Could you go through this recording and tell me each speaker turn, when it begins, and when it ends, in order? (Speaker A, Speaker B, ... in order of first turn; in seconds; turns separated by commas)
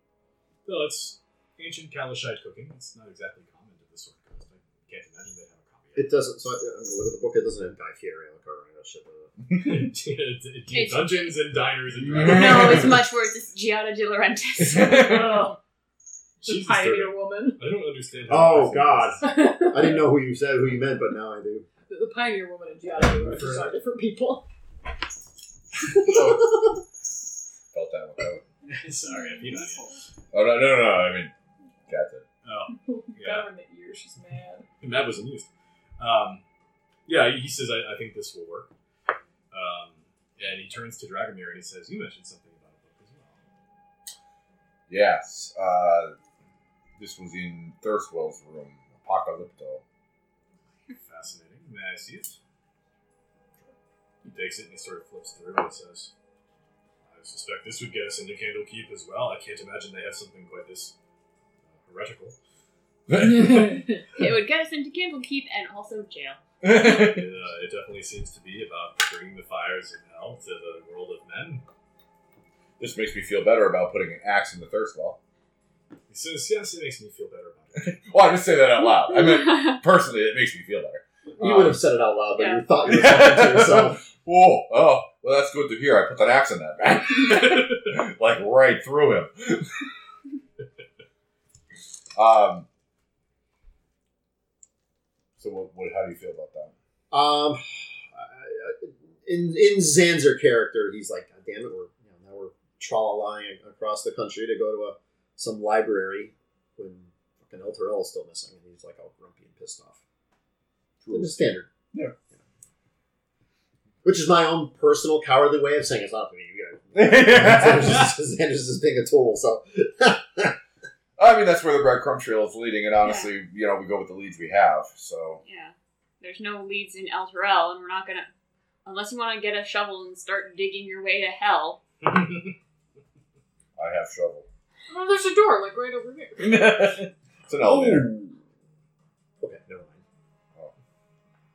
Speaker A: 0.6-6.1, Speaker B: 5.9-9.3, Speaker C: 9.5-9.9, Speaker A: 9.5-12.9, Speaker D: 10.7-11.4, Speaker C: 12.0-12.9, Speaker D: 12.2-15.2, Speaker C: 14.6-15.5, Speaker E: 14.9-15.6, Speaker E: 16.4-17.6, Speaker A: 16.4-20.1, Speaker B: 18.3-21.7, Speaker E: 19.2-19.9, Speaker E: 21.9-24.4, Speaker A: 22.9-23.7, Speaker C: 25.9-26.6, Speaker C: 27.7-28.4, Speaker A: 28.6-30.0, Speaker C: 30.3-31.3, Speaker C: 31.9-32.2, Speaker A: 32.4-33.5, Speaker E: 32.8-34.7, Speaker A: 34.8-36.4, Speaker A: 37.0-38.7, Speaker A: 39.5-43.4, Speaker C: 44.9-46.2, Speaker C: 47.0-49.8, Speaker A: 50.9-52.4, Speaker A: 54.2-56.1, Speaker A: 57.0-60.9, Speaker A: 61.7-62.4, Speaker C: 63.1-63.8, Speaker D: 64.1-66.4, Speaker C: 66.6-67.3, Speaker A: 66.7-71.6, Speaker C: 72.8-75.2, Speaker A: 76.1-78.0, Speaker C: 77.8-81.8, Speaker B: 81.4-84.0, Speaker D: 82.3-82.6, Speaker C: 82.8-89.9, Speaker C: 92.1-92.7, Speaker C: 95.4-96.7, Speaker B: 97.1-110.0, Speaker C: 111.0-111.3, Speaker B: 111.1-111.7, Speaker B: 114.0-120.5, Speaker C: 116.9-118.1, Speaker C: 121.2-125.4, Speaker D: 123.0-123.3, Speaker D: 125.4-128.3, Speaker D: 128.8-131.8, Speaker A: 132.0-132.6, Speaker C: 133.8-134.4, Speaker E: 134.9-136.7, Speaker C: 136.4-138.3, Speaker B: 137.6-138.1, Speaker B: 139.4-140.0